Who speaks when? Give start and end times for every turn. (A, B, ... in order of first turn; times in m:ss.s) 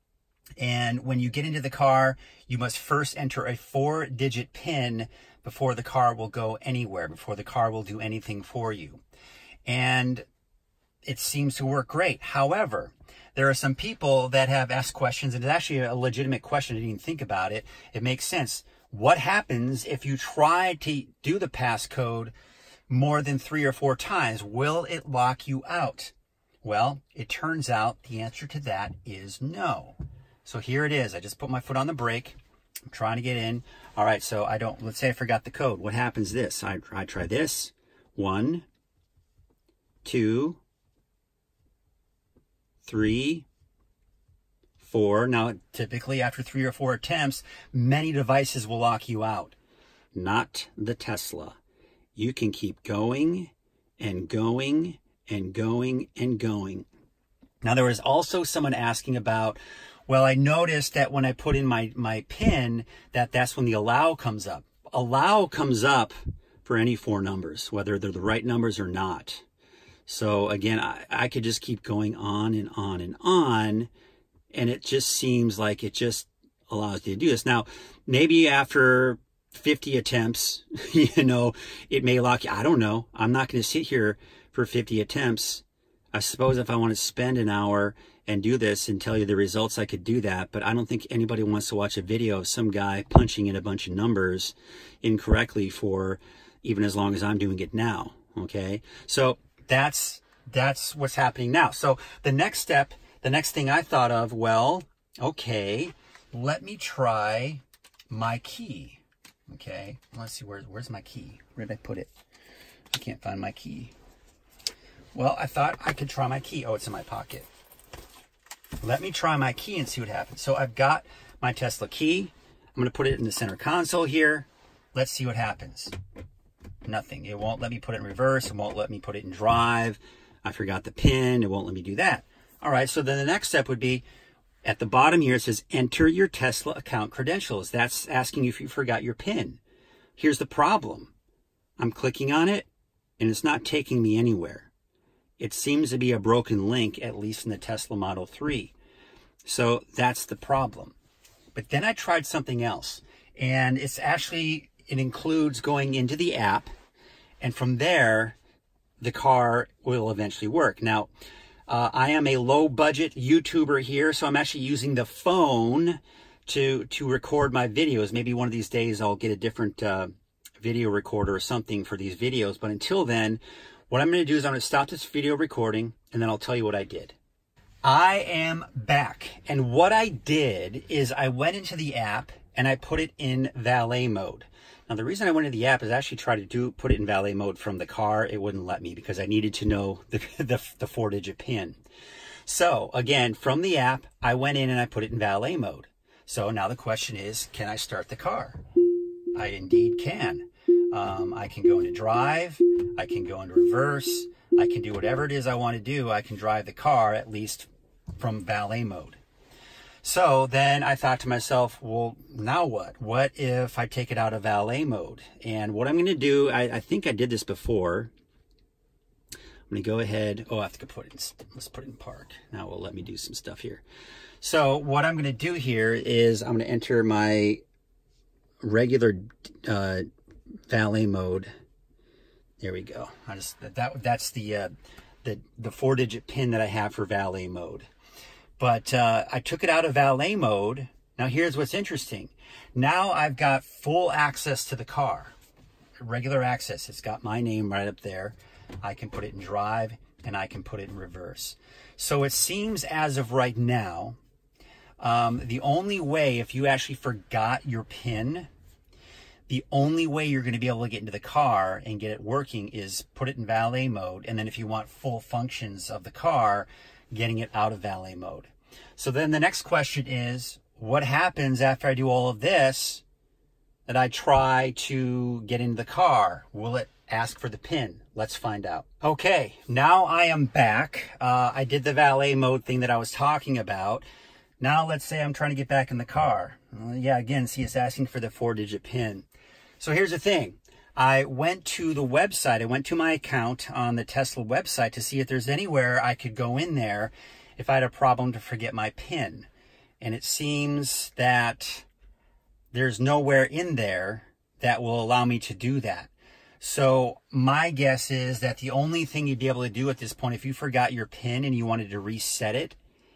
0:00.6-0:09.0 A
0:09.6-0:10.2 A
0:11.0-0:22.3 A
0:22.9-0:32.4 A
0:32.9-0:38.6 A
0:40.0-0:40.6 A
0:42.8-0:43.4 A
0:44.8-0:49.5 A
0:50.1-0:51.6 A
0:52.1-0:56.9 A
0:57.6-1:09.4 A
1:10.1-1:13.9 A
1:14.5-1:52.1 A
1:52.9-1:53.9 A
1:55.1-1:57.5 A
1:58.8-2:05.9 A
2:06.8-2:14.0 A
2:14.6-2:19.6 A
2:20.2-2:21.1 A
2:21.8-2:22.7 A
2:23.2-2:24.7 A
2:25.4-2:28.7 A
2:29.4-2:30.9 A
2:31.5-2:36.7 A
2:37.4-2:38.4 A
2:39.0-2:41.1 A
2:41.7-2:57.2 A
2:57.8-3:11.8 A
3:12.4-3:18.6 A
3:19.3-3:29.2 A
3:30.0-3:38.1 A
3:39.7-3:43.8 A
3:44.4-3:47.6 A
3:48.6-3:50.0 A
3:50.7-3:51.5 A
3:52.6-3:54.7 A
3:55.2-3:57.8 A
3:58.6-4:05.3 A
4:06.0-4:14.2 A
4:15.0-4:18.5 A
4:19.5-4:33.0 A
4:33.9-4:44.0 A
4:44.6-4:49.2 A
4:49.8-4:59.5 A
5:00.0-5:01.8 A
5:02.7-5:12.8 A